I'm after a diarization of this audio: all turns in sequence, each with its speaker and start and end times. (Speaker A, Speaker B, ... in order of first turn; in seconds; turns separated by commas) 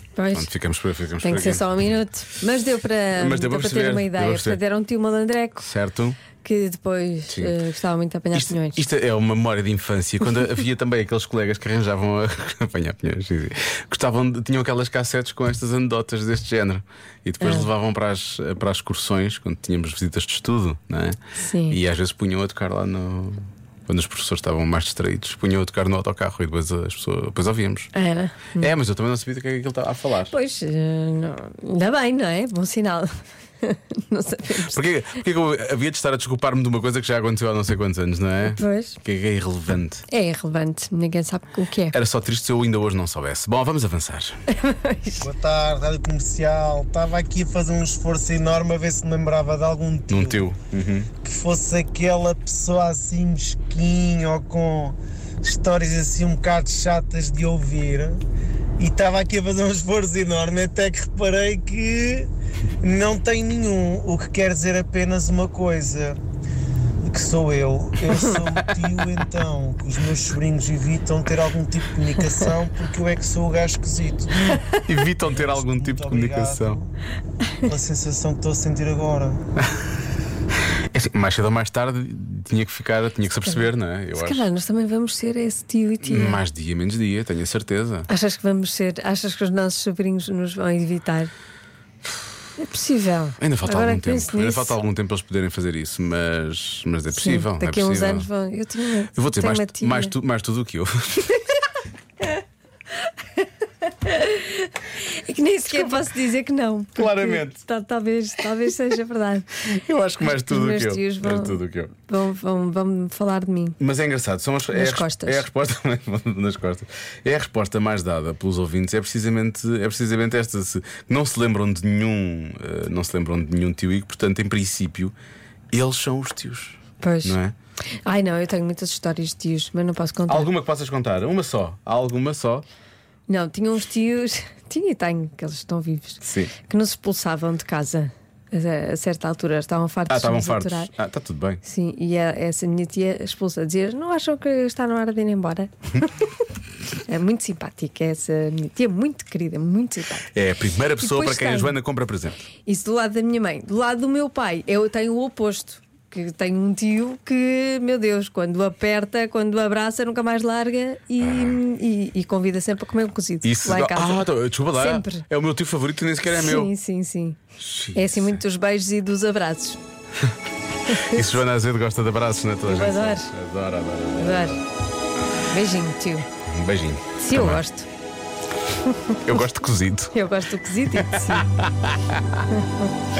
Speaker A: 0.1-0.5, Speaker B: 0.3-1.6, Speaker A: 1.2-5.7, Speaker B: 3.1-4.6, Speaker B: 5.6-6.2, Speaker A: 6.4-8.8, Speaker B: 7.3-7.5, Speaker B: 8.3-21.2, Speaker A: 17.4-17.7, Speaker A: 21.4-21.8, Speaker B: 21.7-27.9, Speaker A: 27.9-28.7, Speaker B: 28.6-30.3, Speaker A: 30.3-33.1, Speaker A: 33.6-34.8, Speaker B: 34.7-40.0, Speaker A: 38.4-39.0, Speaker A: 40.1-42.0, Speaker B: 41.9-44.4, Speaker A: 44.5-45.3, Speaker C: 45.2-50.5, Speaker B: 50.1-51.1, Speaker C: 51.2-58.2, Speaker C: 58.8-62.3, Speaker C: 62.8-66.2, Speaker C: 67.0-74.6, Speaker B: 74.8-76.8, Speaker C: 75.2-76.9, Speaker C: 77.6-79.4, Speaker B: 80.9-84.5, Speaker A: 83.4-86.4, Speaker B: 86.0-88.1, Speaker A: 88.1-91.3, Speaker A: 92.6-94.8, Speaker B: 93.4-98.3, Speaker A: 97.1-100.1, Speaker B: 99.1-101.3, Speaker A: 103.8-109.6, Speaker B: 105.7-106.0, Speaker B: 107.0-107.6, Speaker B: 109.6-111.9, Speaker A: 110.2-113.8, Speaker B: 113.8-125.1, Speaker A: 114.7-115.5, Speaker B: 125.7-127.5, Speaker A: 127.0-127.4, Speaker A: 128.1-130.5, Speaker B: 130.3-132.6, Speaker A: 133.3-140.9, Speaker B: 136.2-136.5, Speaker B: 140.1-141.6, Speaker A: 141.6-146.2, Speaker A: 147.1-150.3, Speaker B: 150.3-152.4, Speaker A: 151.0-151.8, Speaker A: 152.6-165.3, Speaker B: 161.2-161.6, Speaker B: 163.4-166.7, Speaker A: 166.2-167.4, Speaker B: 167.6-168.4, Speaker A: 167.9-169.8, Speaker A: 170.9-171.3, Speaker B: 170.9-174.5, Speaker A: 172.7-173.3, Speaker A: 174.2-174.6, Speaker A: 175.5-176.3, Speaker B: 176.5-177.6, Speaker A: 177.2-177.9, Speaker B: 179.2-180.1, Speaker A: 180.1-181.4, Speaker B: 181.0-182.2, Speaker A: 182.5-182.9